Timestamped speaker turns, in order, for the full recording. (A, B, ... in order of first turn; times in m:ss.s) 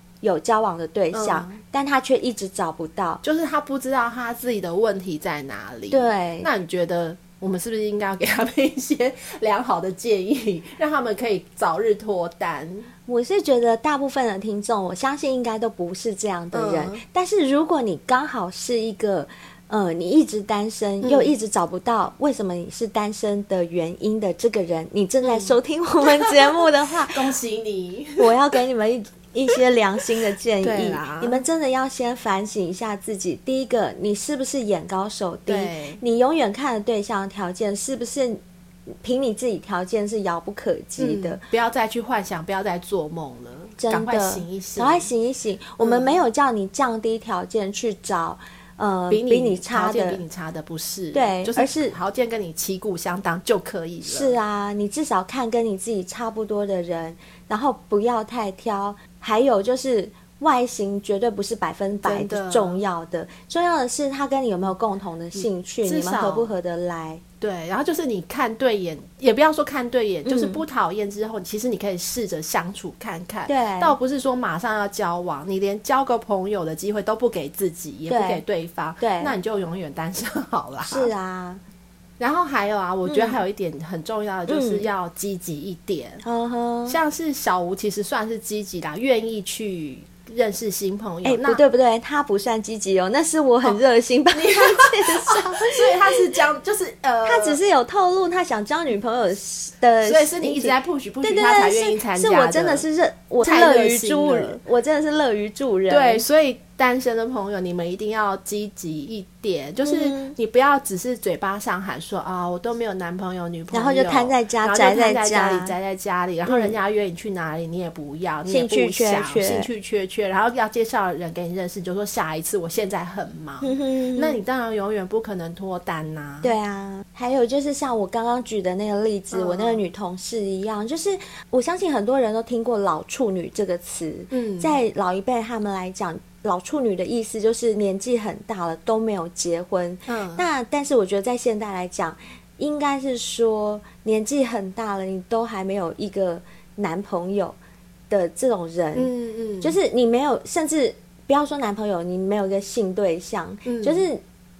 0:00.2-0:03.2 A
0:01.1-0:01.6 B
0:03.2-0:12.9 B
0:05.9-0:06.5 A
0:13.1-0:27.3 A
0:16.5-0:17.0 B
0:21.0-0:21.3 B
0:25.2-0:28.5 B
0:28.2-0:41.4 A
0:30.6-0:31.4 B
0:35.5-0:36.0 B
0:41.0-0:45.1 B
0:43.8-0:50.2 A
0:45.8-0:46.2 B
0:49.1-0:54.4 B
0:51.1-0:52.0 A
0:54.0-1:07.2 A
1:02.0-1:02.8 B
1:05.4-1:06.5 B
1:07.4-1:21.1 B
1:10.2-1:10.6 A
1:13.5-1:14.0 A
1:18.1-1:18.4 A
1:19.0-1:19.4 A
1:20.8-1:21.6 A
1:22.2-1:26.2 B
1:23.1-1:23.4 A
1:24.5-1:24.9 A
1:26.2-1:27.0 A
1:26.9-1:31.6 B
1:31.2-1:36.2 A
1:33.6-1:37.6 B
1:37.2-1:46.2 A
1:40.0-1:42.8 B
1:43.4-1:44.6 B
1:45.9-2:06.6 B
1:49.8-1:50.3 A
1:53.7-1:55.8 A
1:56.5-1:56.8 A
1:58.5-1:59.7 A
2:03.6-2:04.4 A
2:06.4-2:27.6 A
2:09.3-2:09.8 B
2:14.3-2:14.8 B
2:20.1-2:20.5 B
2:28.1-2:34.2 A
2:29.0-2:29.8 B
2:33.7-2:34.0 B